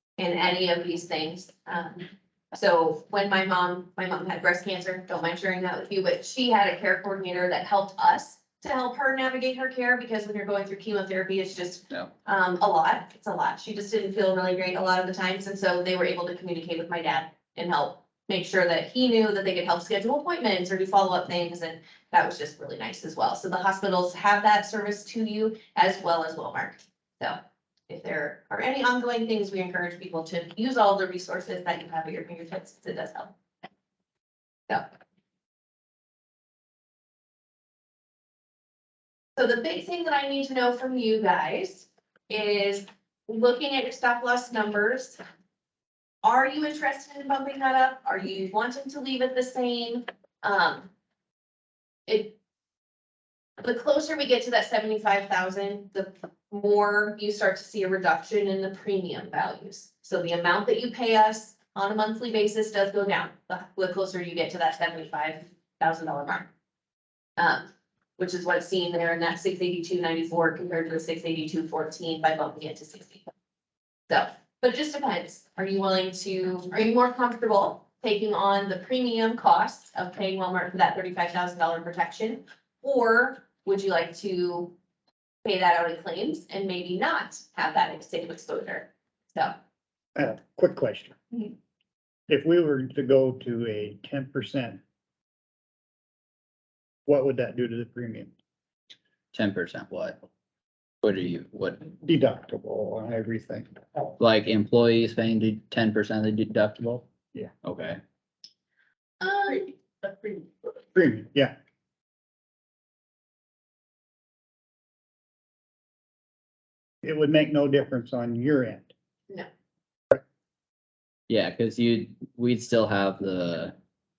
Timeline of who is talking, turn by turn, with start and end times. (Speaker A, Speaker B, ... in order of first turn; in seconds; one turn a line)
Speaker A: 0.2-33.3
Speaker A: 39.4-45.2
Speaker A: 46.2-50.9
Speaker A: 52.1-52.3
Speaker A: 53.6-66.5
Speaker A: 67.4-73.3
Speaker A: 74.1-84.7
Speaker A: 85.4-89.5
Speaker B: 90.1-91.2
Speaker B: 92.3-94.8
Speaker B: 97.0-98.3
Speaker C: 99.3-100.2
Speaker C: 101.0-101.9
Speaker B: 102.0-103.7
Speaker C: 104.2-107.0
Speaker C: 107.6-108.0
Speaker A: 109.2-109.7
Speaker B: 110.9-111.5
Speaker B: 117.0-118.9
Speaker C: 121.3-123.8